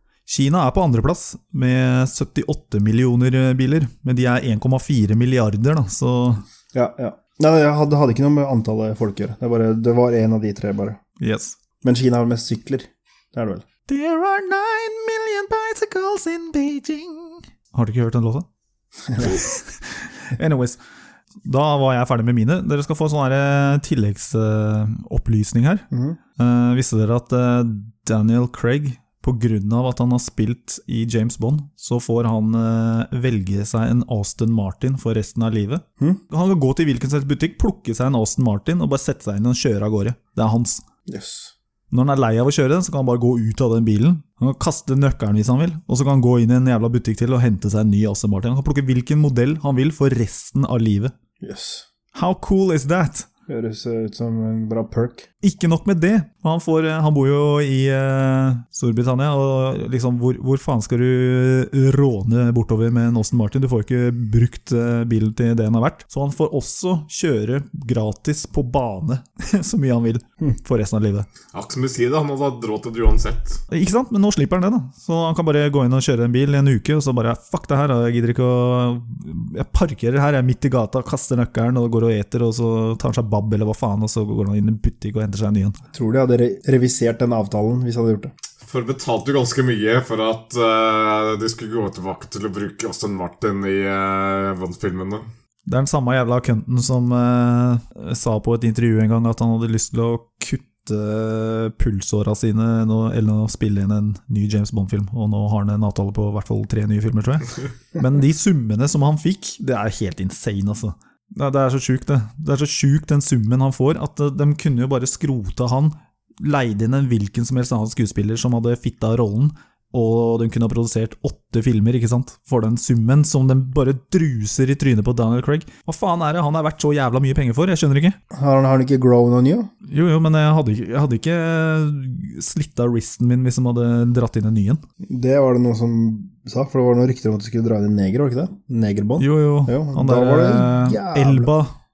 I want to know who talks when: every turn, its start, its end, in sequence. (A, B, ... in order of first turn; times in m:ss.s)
0:00.3-0:06.4 A
0:06.7-0:11.0 B
0:11.2-0:11.6 A
0:11.8-0:13.6 B
0:13.9-0:18.4 A
0:19.1-0:19.3 B
0:19.2-0:20.8 A
0:21.4-0:25.8 A
0:25.9-0:26.2 B
0:26.4-0:40.8 A
0:41.1-0:41.5 B
0:41.9-0:51.1 A
0:51.4-0:51.9 B
0:52.1-0:53.3 A
0:53.5-0:55.3 B
0:55.4-1:11.3 A
1:11.5-1:13.6 C
1:13.7-1:25.8 A
1:25.9-1:28.3 B
1:28.6-1:35.2 C
1:35.7-2:08.2 A
2:08.3-2:09.7 B
2:09.9-2:14.8 A
2:15.0-2:21.5 B
2:19.2-2:21.7 A